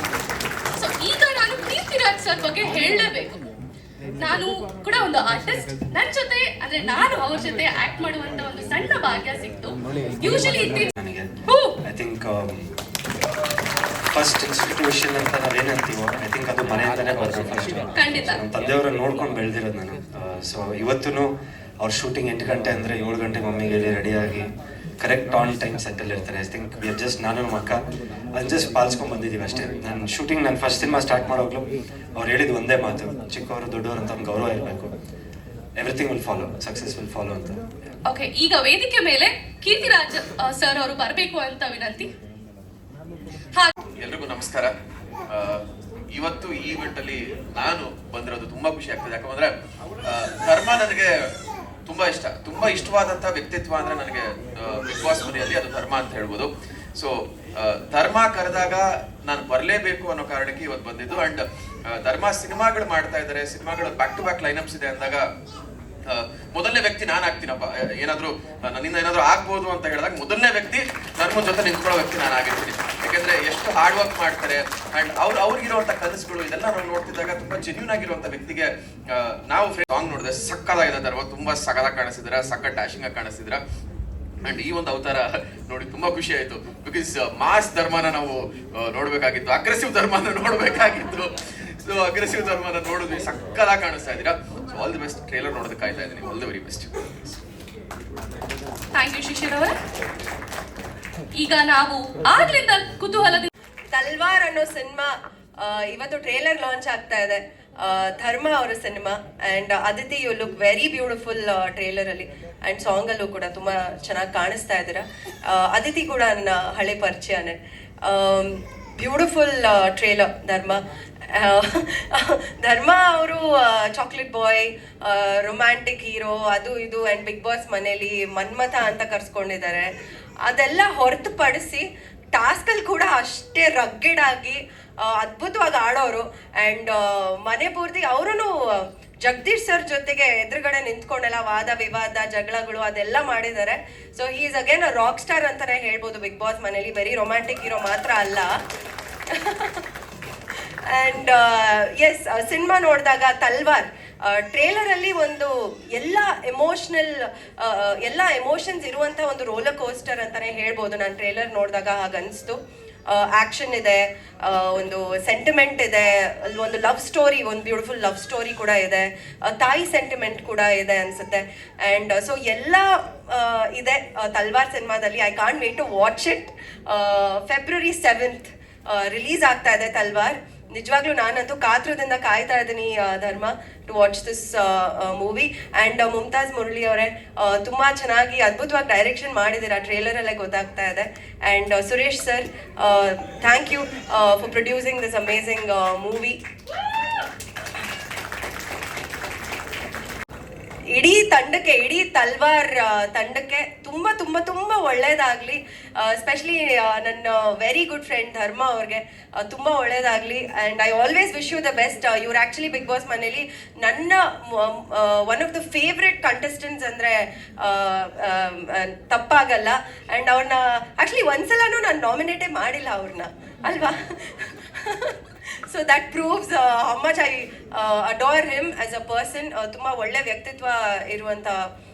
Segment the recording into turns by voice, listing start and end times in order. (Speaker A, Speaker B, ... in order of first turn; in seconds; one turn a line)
Speaker A: 0.8-3.4
Speaker A: 4.2-10.9
Speaker B: 10.5-11.3
Speaker A: 11.5-11.8
Speaker B: 11.8-12.7
Speaker B: 14.1-24.5
Speaker A: 17.9-18.4
Speaker B: 25.0-27.8
Speaker B: 28.3-31.6
Speaker B: 32.1-34.9
Speaker B: 35.8-37.6
Speaker A: 38.1-42.1
Speaker C: 44.0-44.7
Speaker C: 45.3-45.6
Speaker C: 46.1-49.5
Speaker C: 50.0-51.1
Speaker C: 51.9-65.2
Speaker C: 66.1-83.6
Speaker C: 84.4-91.3
Speaker C: 91.9-96.9
Speaker A: 99.0-99.7
Speaker A: 101.4-103.5
Speaker D: 103.9-120.8
Speaker D: 121.3-129.8
Speaker D: 130.4-148.5
Speaker D: 149.3-149.8
Speaker D: 150.9-162.6
Speaker D: 163.1-196.4
Speaker D: 200.9-225.2
Speaker D: 225.7-231.6